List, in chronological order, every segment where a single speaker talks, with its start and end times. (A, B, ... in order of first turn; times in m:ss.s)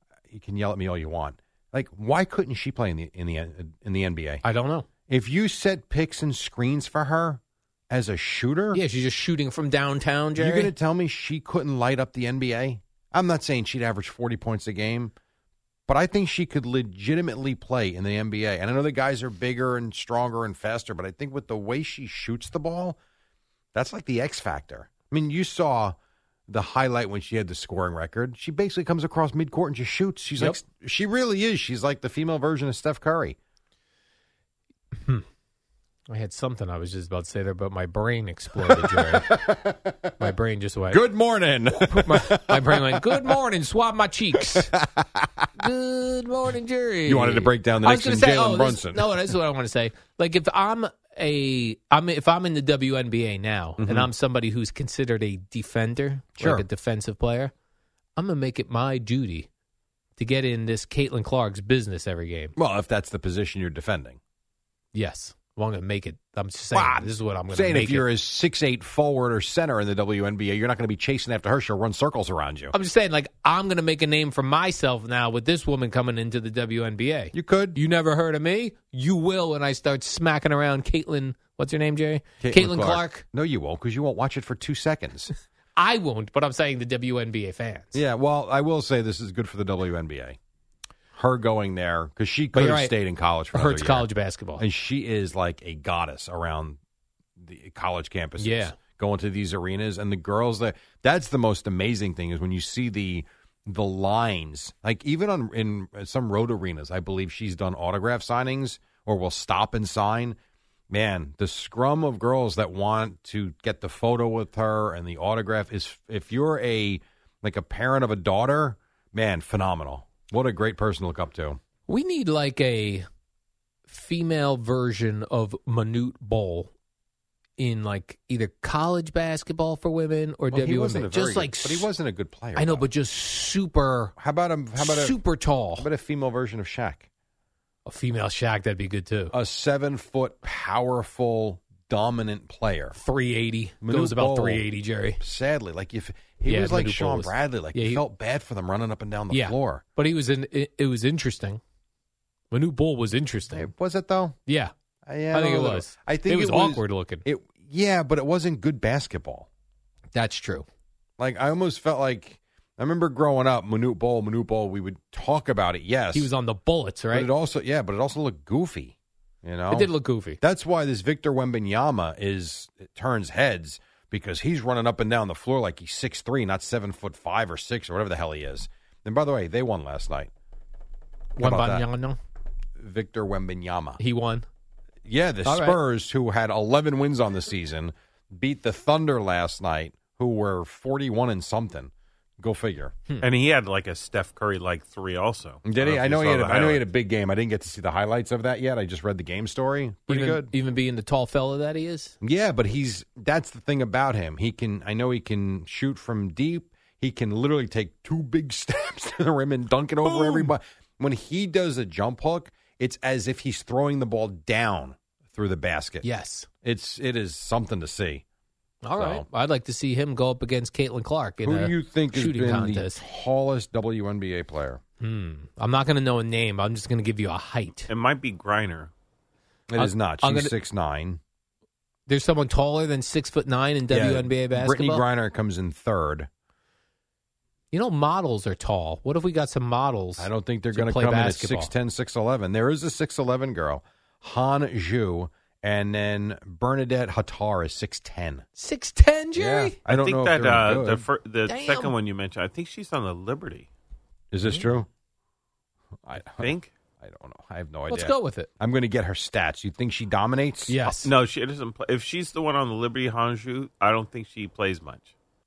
0:00.3-0:04.4 A
0:04.4-0:04.9 B
0:05.1-0:08.8 A
0:08.7-0:10.7 B
0:10.4-0:15.1 A
0:15.9-0:23.0 A
0:23.7-0:26.0 A
0:26.5-0:33.4 A
0:36.1-0:39.3 B
0:38.6-0:40.1 A
0:40.2-0:41.0 B
0:40.9-0:43.3 A
0:41.9-0:44.7 B
0:44.6-0:45.5 A
0:45.6-0:57.5 B
0:47.1-0:49.3 A
0:53.8-0:54.1 A
0:56.4-0:56.7 A
0:58.2-0:59.5 B
1:00.2-1:02.5 B
1:02.6-1:04.2 A
1:04.9-1:08.1 B
1:06.7-1:12.7 A
1:12.7-1:23.2 B
1:17.3-1:17.8 A
1:22.4-1:25.3 A
1:25.8-1:28.0 B
1:27.9-1:30.4 A
1:31.2-1:36.8 A
1:32.5-1:33.0 B
1:33.5-1:34.6 B
1:37.4-1:50.4 A
1:38.4-1:38.8 B
1:50.9-2:01.6 A
2:01.9-2:03.1 B
2:03.9-2:06.7 B
2:07.6-2:11.9 B
2:10.5-2:12.8 A
2:12.6-2:14.2 B
2:14.2-2:15.2 A
2:14.8-2:15.9 B
2:15.8-2:17.0 A
2:17.9-2:19.3 B
2:19.3-2:23.0 A
2:22.9-2:25.2 B
2:23.8-2:24.7 A
2:25.2-2:29.8 A
2:26.5-2:28.0 B
2:29.3-2:31.6 B
2:32.5-2:33.7 B
2:33.5-2:34.4 A
2:34.5-2:34.7 B
2:35.1-2:39.5 A
2:35.3-2:37.2 B
2:40.1-2:40.7 B
2:41.2-2:46.3 A
2:46.1-2:47.3 B
2:47.1-3:00.3 A
2:49.7-2:50.4 B
3:01.4-3:02.2 B
3:01.4-3:01.9 A
3:02.8-3:04.0 A
3:04.0-3:04.4 B
3:05.1-3:13.0 A
3:05.4-3:05.8 B
3:13.2-3:16.9 C
3:15.6-3:20.5 A
3:20.1-3:22.2 B
3:22.2-3:36.0 A
3:30.0-3:30.5 B
3:36.0-3:36.5 B
3:36.6-3:38.2 A
3:38.8-3:43.0 B
3:39.0-3:39.2 A
3:41.4-3:44.8 A
3:45.0-3:47.9 B
3:47.9-3:48.9 C
3:49.7-3:51.2 A
3:49.8-3:50.5 B
3:52.1-3:55.0 B
3:53.9-3:56.3 A
3:57.7-4:01.7 B
4:00.2-4:08.4 A
4:08.6-4:09.8 B
4:09.4-4:11.1 A
4:09.8-4:13.7 C
4:11.5-4:11.9 B
4:14.3-4:14.9 A
4:16.0-4:20.9 A
4:16.4-4:16.7 C
4:17.9-4:18.5 B
4:20.7-4:21.1 B
4:21.0-4:25.1 C